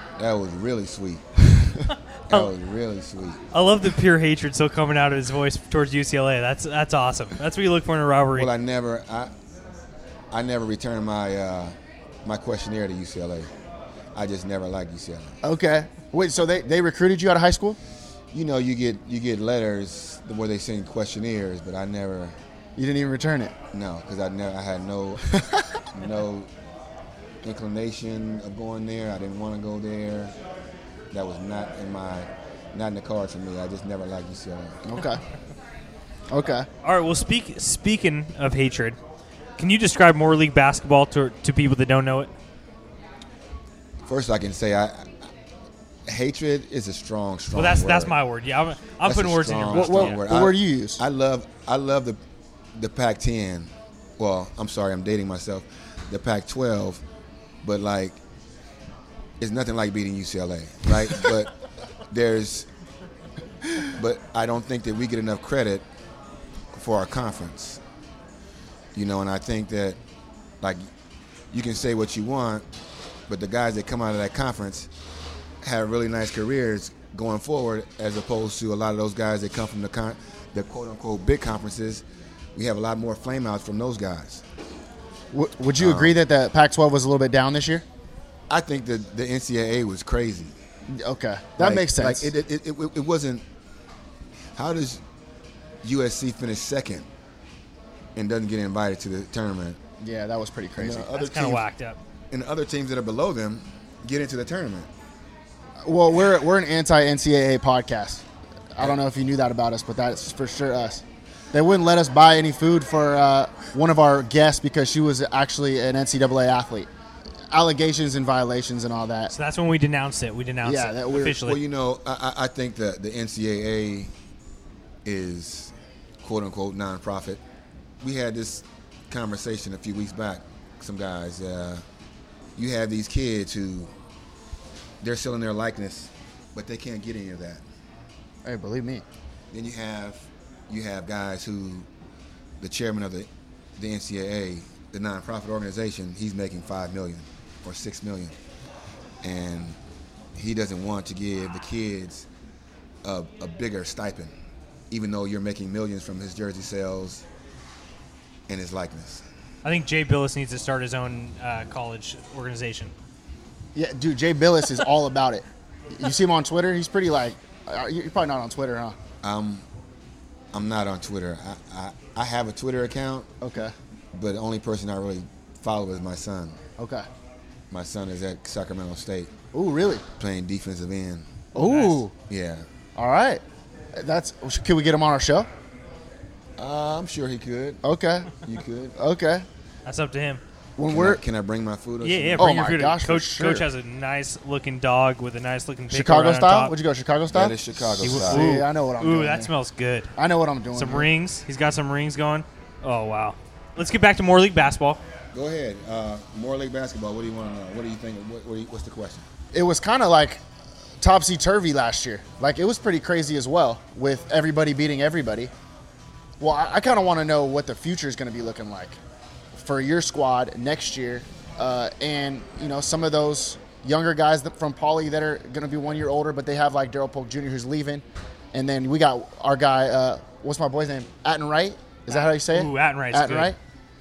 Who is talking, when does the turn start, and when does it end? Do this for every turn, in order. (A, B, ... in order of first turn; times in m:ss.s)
0:00.2-0:03.4 A
0:03.5-0:08.5 B
0:08.4-0:09.3 A
0:10.3-0:13.5 A
0:14.1-0:15.4 A
0:15.4-0:17.8 C
0:18.3-0:22.4 A
0:22.8-0:23.6 C
0:23.7-0:26.5 A
0:27.4-0:30.3 A
0:31.1-0:34.8 A
0:34.8-0:35.2 C
0:36.3-0:36.7 C
0:36.8-0:39.0 B
0:39.6-0:42.3 B
0:44.1-0:45.1 A
0:46.1-0:48.2 A
0:47.5-0:50.2 B
0:49.0-0:52.2 A
0:49.7-0:51.0 C
0:52.8-0:57.0 A
0:57.6-0:58.2 A
0:59.4-1:01.6 A
1:02.1-1:02.7 A
1:03.8-1:05.8 A
1:06.7-1:07.8 A
1:09.0-1:10.0 A
1:10.6-1:10.9 A
1:11.5-1:12.7 A
1:13.3-1:14.9 A
1:15.6-1:24.4 A
1:25.3-1:27.8 C
1:25.8-1:26.2 A
1:28.5-1:30.5 A
1:30.9-1:32.3 C
1:31.6-1:33.4 A
1:34.6-1:35.0 A
1:35.8-1:37.1 A
1:38.2-1:39.8 A
1:40.0-1:41.2 C
1:40.8-1:41.6 A
1:41.1-1:42.0 B
1:42.3-1:44.9 A
1:45.8-1:56.9 C
1:57.5-1:59.3 C
1:59.3-2:01.6 B
2:00.6-2:01.4 C
2:01.3-2:04.1 A
2:05.0-2:07.4 A
2:08.0-2:11.8 A
2:12.6-2:13.9 A
2:15.0-2:17.6 A
2:18.4-2:19.0 C
2:19.5-2:21.9 A
2:22.6-2:28.4 A
2:29.2-2:29.8 A
2:30.4-2:32.3 A
2:33.0-2:34.3 A
2:34.9-2:37.2 A
2:38.5-2:39.2 A
2:39.6-2:42.9 B
2:43.8-2:49.0 C
2:49.2-2:49.6 A
2:50.5-2:53.3 A
2:53.4-2:53.8 C
2:54.1-2:56.6 A
2:56.8-2:57.1 C
2:57.7-2:59.3 A
2:59.5-3:00.0 C
3:00.2-3:01.5 A
3:01.6-3:02.1 C
3:01.6-3:02.0 B
3:02.3-3:02.7 A
3:03.0-3:03.4 C
3:04.0-3:05.5 C
3:06.6-3:09.0 A
3:07.8-3:08.3 C
3:09.0-3:09.5 C
3:09.9-3:10.4 B
3:10.8-3:11.2 C
3:10.9-3:12.6 A
3:12.0-3:16.8 B
3:12.4-3:13.7 C
3:15.9-3:19.5 C
3:17.3-3:18.5 A
3:18.0-3:20.1 B
3:20.2-3:21.1 C
3:20.7-3:25.0 B
3:25.3-3:29.3 A
3:29.5-3:30.4 C
3:31.0-3:35.5 C
3:36.4-3:39.0 C
3:39.5-3:53.6 C
3:52.1-3:53.6 B